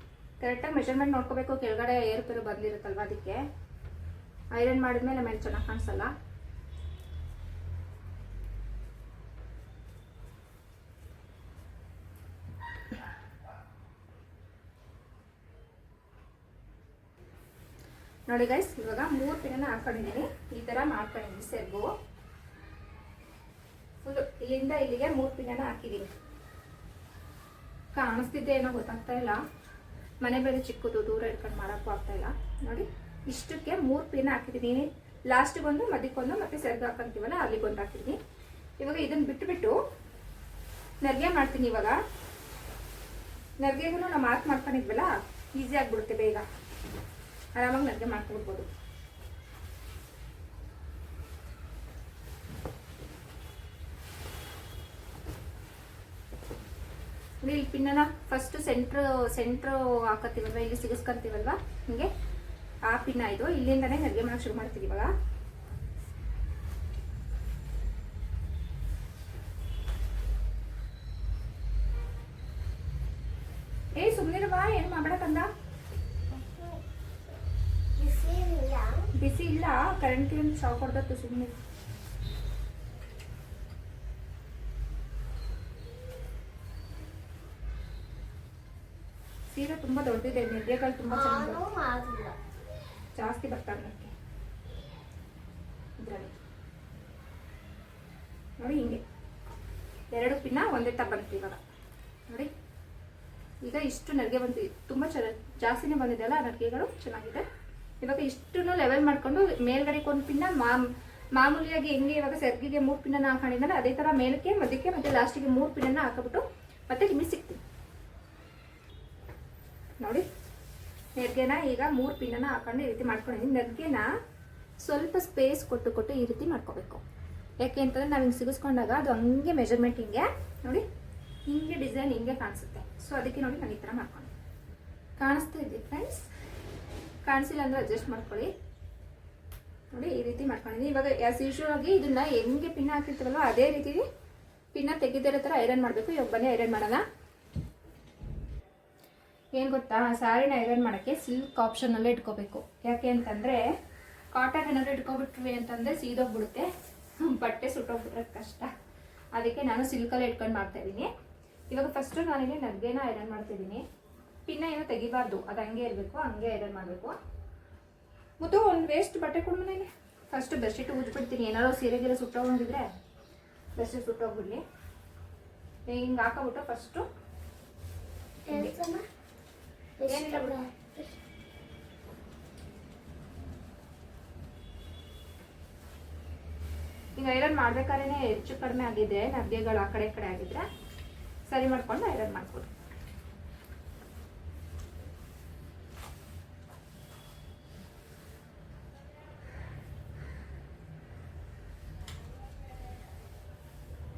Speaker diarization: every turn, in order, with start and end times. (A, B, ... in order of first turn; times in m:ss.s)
0:00.4-0:03.4 A
0:04.5-0:06.1 A
0:18.3-0:21.9 A
0:24.0-0:26.1 A
0:28.0-0:29.4 A
0:30.2-0:38.2 A
0:38.8-0:39.8 A
0:41.0-0:42.0 A
0:43.6-0:46.4 A
0:47.6-0:48.7 A
0:57.4-1:02.1 A
1:02.9-1:05.1 A
1:14.0-1:15.5 A
1:16.3-1:16.8 B
1:18.0-1:19.1 B
1:19.2-1:21.6 A
1:29.5-1:31.6 A
1:31.1-1:32.4 B
1:33.1-1:34.1 A
1:36.0-1:36.4 A
1:38.6-1:39.0 A
1:40.1-1:41.6 A
1:43.6-1:47.4 A
1:48.0-1:57.6 A
2:00.0-2:00.2 A
2:01.2-2:04.1 A
2:04.8-2:07.0 A
2:07.6-2:10.8 A
2:11.5-2:14.3 A
2:15.2-2:16.3 A
2:17.2-2:18.5 A
2:19.9-2:24.0 A
2:24.7-2:27.0 A
2:29.5-2:33.6 A
2:34.3-2:38.7 A
2:39.4-2:41.1 A
2:41.7-2:43.8 A
2:44.5-2:47.1 A
2:48.4-2:52.9 A
2:53.8-2:54.6 A
2:55.9-2:57.0 A
2:58.5-2:59.0 B
2:58.5-2:58.8 A
3:00.0-3:01.2 B
3:00.1-3:00.6 A
3:07.2-3:10.6 A
3:11.5-3:12.7 A